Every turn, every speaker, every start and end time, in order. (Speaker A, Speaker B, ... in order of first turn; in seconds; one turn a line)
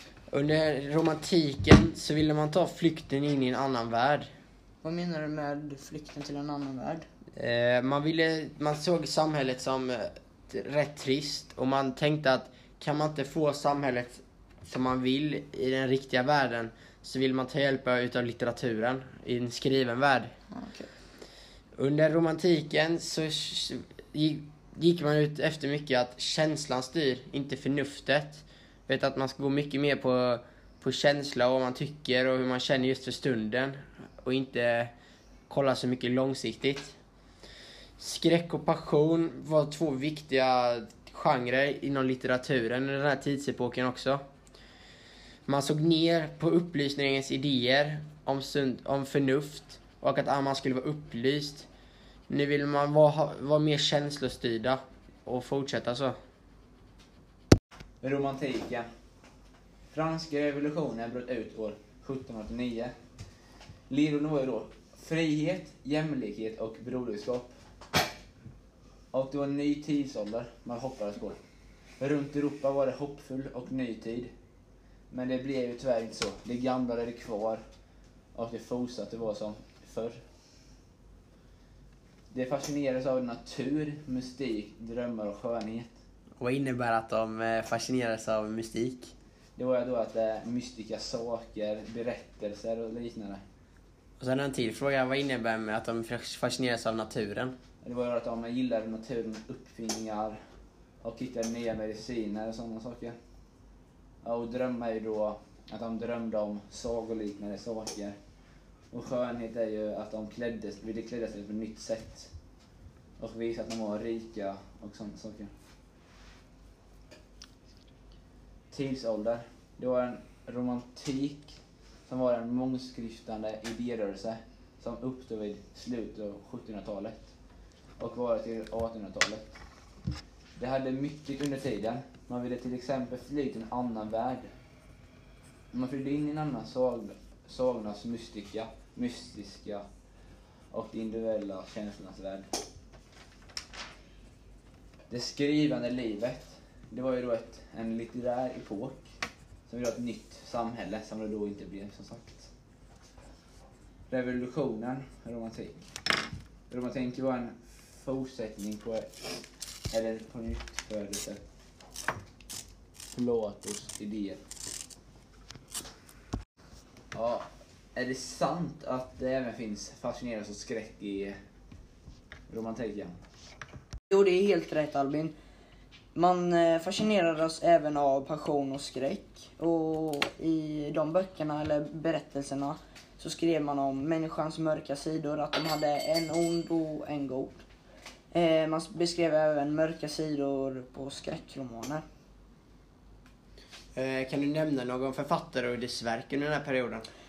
Speaker A: 0.3-4.3
Speaker B: 4.8-7.0
Speaker A: 7.3-20.3
Speaker B: 20.5-20.9
Speaker A: 21.8-34.9
Speaker A: 35.5-37.0
Speaker A: 38.0-44.2
Speaker A: 45.5-51.7
Speaker A: 52.3-56.1
Speaker C: 58.0-58.9
Speaker C: 59.9-62.9
Speaker C: 63.9-67.6
Speaker C: 69.1-71.4
Speaker C: 72.0-74.3
Speaker C: 75.1-77.6
Speaker C: 78.3-80.2
Speaker C: 82.3-86.0
Speaker A: 86.4-89.1
Speaker C: 89.5-93.4
Speaker A: 94.2-97.5
Speaker C: 97.8-100.4
Speaker C: 101.0-103.2
Speaker C: 104.2-108.2
Speaker C: 108.9-112.3
Speaker C: 113.2-115.5
Speaker C: 118.7-121.5
Speaker C: 122.1-127.3
Speaker C: 128.0-129.6
Speaker C: 130.6-134.5
Speaker C: 135.7-139.8
Speaker C: 140.7-142.5
Speaker C: 145.1-149.1
Speaker C: 149.7-152.5
Speaker C: 154.1-155.8
Speaker C: 156.7-159.3
Speaker C: 159.9-161.4
Speaker C: 163.1-164.4
Speaker C: 167.1-171.4
Speaker C: 172.5-173.2
Speaker B: 174.1-175.3
Speaker B: 176.1-187.6
Speaker B: 188.3-192.0
Speaker A: 193.9-197.0